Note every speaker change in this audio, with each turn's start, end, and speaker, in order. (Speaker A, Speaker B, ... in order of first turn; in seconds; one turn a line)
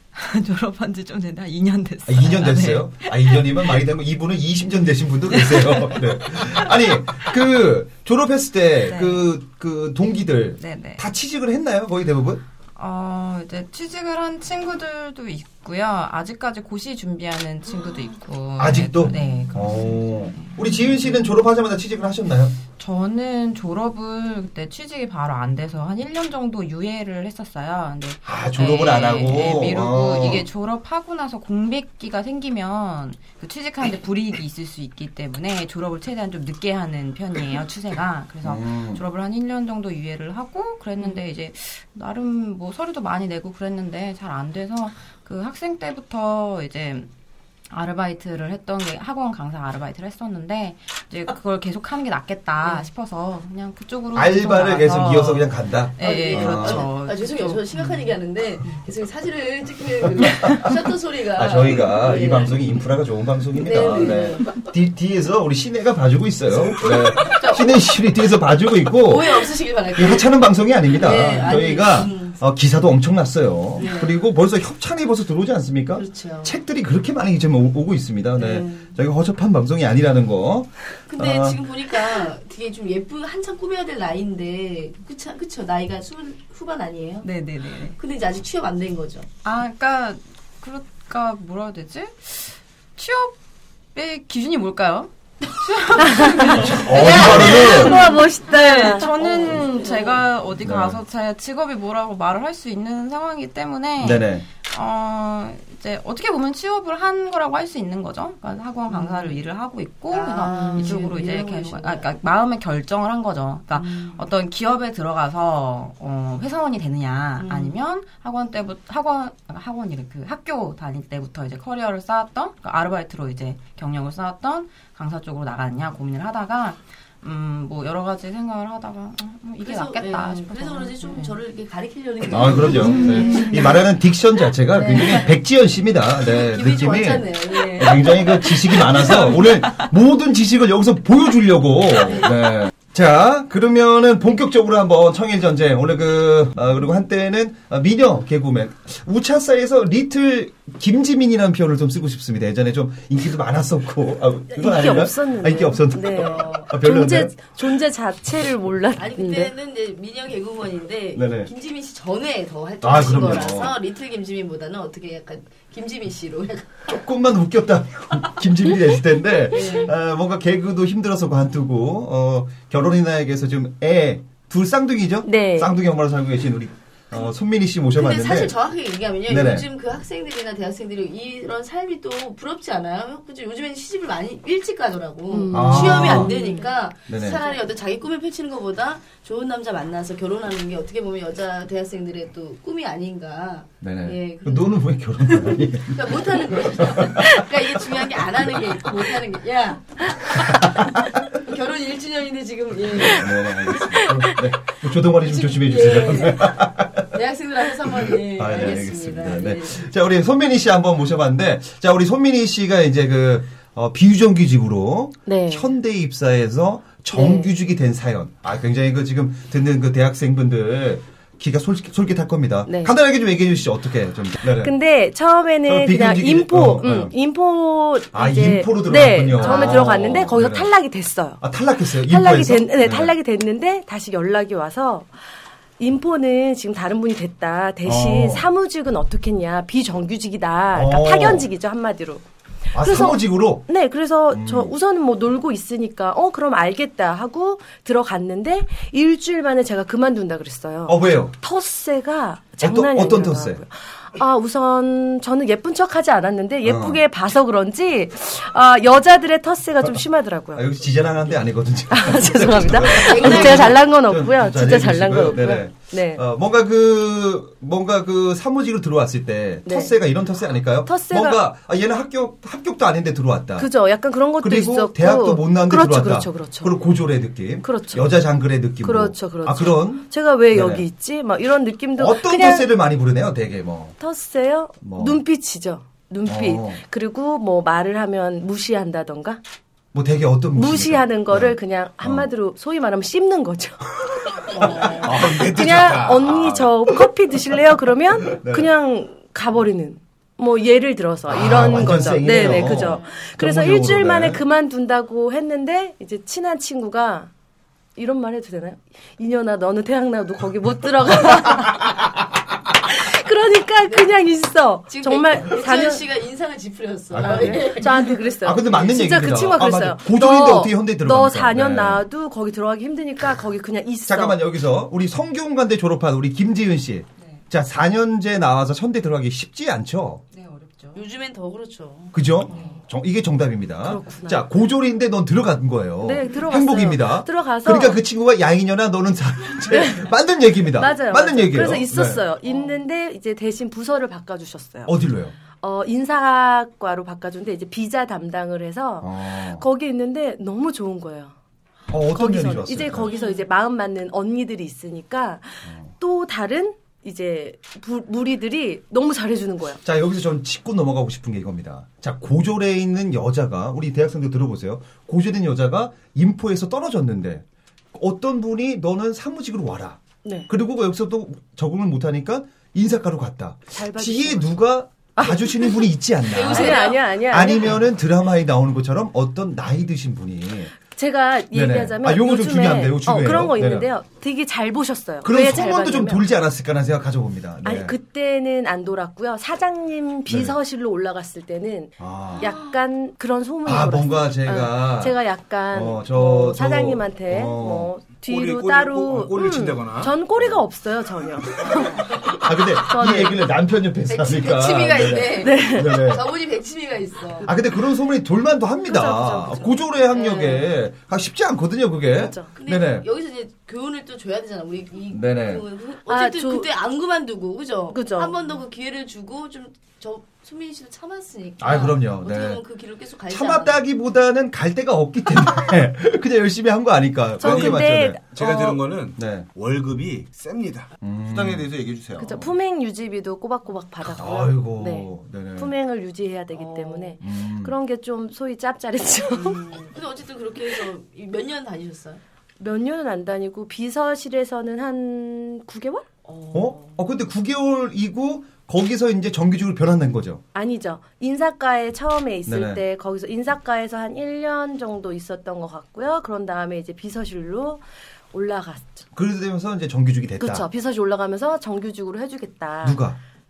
Speaker A: 0.1-3.8
Speaker B: 2.1-12.4
Speaker A: 5.3-7.3
Speaker A: 8.8-9.3
Speaker A: 10.6-11.1
Speaker A: 12.8-21.3
Speaker B: 18.6-22.6
Speaker A: 22.8-47.1
Speaker B: 28.2-30.4
Speaker B: 38.4-39.0
Speaker A: 47.7-58.0
Speaker B: 54.1-56.9
Speaker C: 56.0-62.6
Speaker B: 60.2-60.7
Speaker B: 61.4-81.6
Speaker C: 63.6-64.6
Speaker C: 66.8-67.9
Speaker C: 69.1-70.3
Speaker C: 70.9-72.4
Speaker C: 73.8-74.2
Speaker C: 75.9-76.5
Speaker C: 78.4-79.0
Speaker C: 81.1-87.3
Speaker A: 87.2-88.0
Speaker C: 87.9-89.3
Speaker A: 89.4-93.4
Speaker A: 93.9-131.4
Speaker D: 96.0-99.1
Speaker B: 96.5-98.0
Speaker C: 99.2-100.2
Speaker B: 100.6-101.0
Speaker B: 104.0-104.5
Speaker C: 108.9-109.3
Speaker C: 110.1-112.1
Speaker D: 110.5-111.0
Speaker C: 113.7-114.2
Speaker C: 117.4-117.8
Speaker C: 129.6-133.8
Speaker B: 132.3-157.5
Speaker A: 132.7-133.4
Speaker C: 134.7-135.4
Speaker C: 136.2-139.3
Speaker C: 141.9-142.5
Speaker D: 154.5-159.5
Speaker C: 156.0-156.7
Speaker C: 159.0-166.7
Speaker B: 161.2-161.5
Speaker B: 162.8-163.8
Speaker B: 166.9-178.5
Speaker C: 169.5-169.9
Speaker D: 175.2-175.7
Speaker C: 177.9-204.0
Speaker B: 179.3-179.7
Speaker D: 185.3-186.7
Speaker B: 185.5-186.3
Speaker B: 187.1-187.4
Speaker B: 193.8-197.4
Speaker B: 203.1-207.1
Speaker C: 205.2-209.9
Speaker B: 207.9-224.7
Speaker D: 215.3-215.7
Speaker D: 217.1-217.5
Speaker D: 222.7-222.9
Speaker D: 224.6-231.4
Speaker B: 225.7-227.1
Speaker B: 228.1-230.7
Speaker C: 229.4-229.8
Speaker B: 231.4-233.2
Speaker D: 232.1-235.1
Speaker D: 235.8-242.2
Speaker B: 237.8-238.5
Speaker B: 240.7-241.5
Speaker B: 242.7-243.7
Speaker D: 242.8-260.6
Speaker B: 244.3-244.7
Speaker B: 250.9-251.3
Speaker B: 252.6-253.6
Speaker B: 256.6-257.0
Speaker B: 260.6-273.7
Speaker D: 261.9-266.2
Speaker C: 262.9-263.8
Speaker D: 269.7-269.9
Speaker D: 270.9-271.4
Speaker D: 273.6-276.8
Speaker B: 274.4-280.9
Speaker D: 277.6-278.1
Speaker D: 278.8-282.7
Speaker B: 282.0-284.0
Speaker D: 284.0-289.4
Speaker B: 284.8-285.2
Speaker B: 286.2-286.8
Speaker B: 289.9-292.3
Speaker D: 290.6-307.3
Speaker C: 294.5-295.2
Speaker E: 294.9-296.7
Speaker B: 298.3-298.7
Speaker B: 301.3-304.4
Speaker D: 308.0-312.0
Speaker D: 312.9-316.0
Speaker C: 314.9-318.3
Speaker B: 317.1-317.8
Speaker D: 317.2-324.4
Speaker B: 318.4-322.1
Speaker B: 324.1-330.2
Speaker A: 327.2-327.4
Speaker A: 330.3-331.1
Speaker C: 330.9-332.6
Speaker B: 332.1-342.2
Speaker A: 332.5-332.8
Speaker D: 333.8-334.4
Speaker D: 336.0-338.0
Speaker D: 339.7-340.1
Speaker D: 340.8-344.9
Speaker B: 344.9-345.4
Speaker D: 345.6-351.4
Speaker B: 349.0-349.6
Speaker B: 351.9-353.1
Speaker D: 352.1-359.8
Speaker B: 359.9-380.8
Speaker D: 370.2-370.5
Speaker D: 373.7-374.6
Speaker D: 375.2-375.9
Speaker C: 376.2-377.1
Speaker D: 376.4-377.8
Speaker D: 380.9-386.2
Speaker B: 381.5-383.9
Speaker B: 385.2-387.9
Speaker D: 387.6-403.4
Speaker B: 390.3-390.6
Speaker B: 392.0-392.5
Speaker B: 393.6-395.2
Speaker B: 395.7-397.9
Speaker E: 398.2-400.1
Speaker B: 402.2-406.3
Speaker C: 404.1-407.5
Speaker D: 405.4-406.1
Speaker B: 407.4-413.1
Speaker D: 408.9-409.8
Speaker C: 410.1-410.7
Speaker D: 412.1-412.5
Speaker C: 412.6-423.8
Speaker B: 415.1-415.7
Speaker D: 416.1-416.7
Speaker D: 417.9-418.4
Speaker B: 421.6-422.6
Speaker B: 423.3-428.2
Speaker D: 427.4-428.8
Speaker E: 427.4-432.4
Speaker B: 429.1-429.5
Speaker B: 431.0-431.7
Speaker D: 432.2-439.7
Speaker B: 434.2-435.7
Speaker C: 436.5-437.2
Speaker B: 437.2-437.7
Speaker C: 439.3-442.2
Speaker D: 442.6-446.1
Speaker C: 446.3-447.0
Speaker B: 446.5-450.4
Speaker D: 450.5-457.8
Speaker B: 452.5-452.8
Speaker D: 458.3-459.1
Speaker B: 459.1-460.7
Speaker D: 460.4-463.0
Speaker B: 462.8-463.2